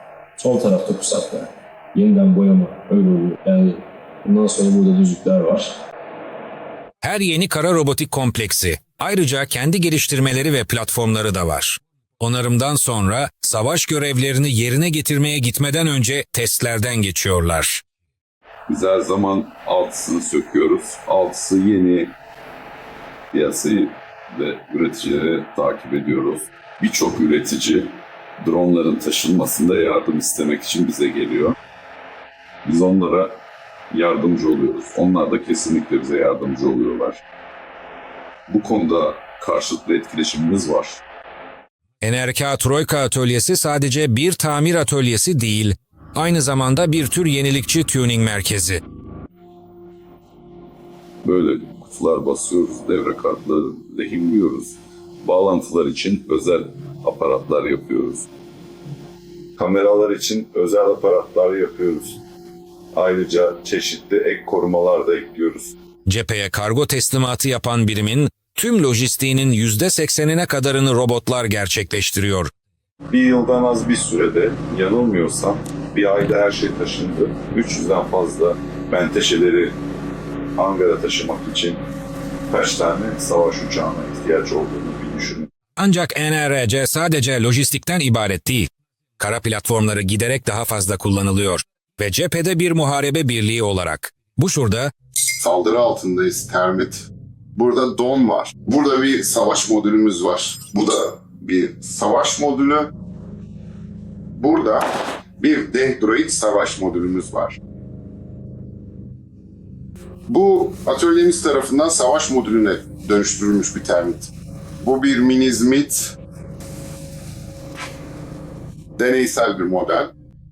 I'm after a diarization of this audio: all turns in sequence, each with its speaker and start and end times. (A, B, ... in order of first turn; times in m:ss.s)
0:00.4-0:05.8 A
0:07.0-0:17.8 B
0:18.7-0:22.1 C
0:23.3-0:31.5 C
0:32.6-0:33.4 C
0:33.9-0:37.2 C
0:38.5-0:41.0 C
0:42.0-0:48.8 B
0:51.2-0:58.3 C
0:59.6-1:02.2 C
1:02.9-1:05.7 C
1:06.1-1:12.5 B
1:13.1-1:19.8 C
1:20.6-1:21.8 C
1:22.5-1:25.5 C
1:25.8-1:34.9 B
1:35.4-1:42.9 D
1:44.4-1:44.8 D
1:45.4-1:47.6 D
1:50.3-1:56.2 D
1:59.0-2:00.1 D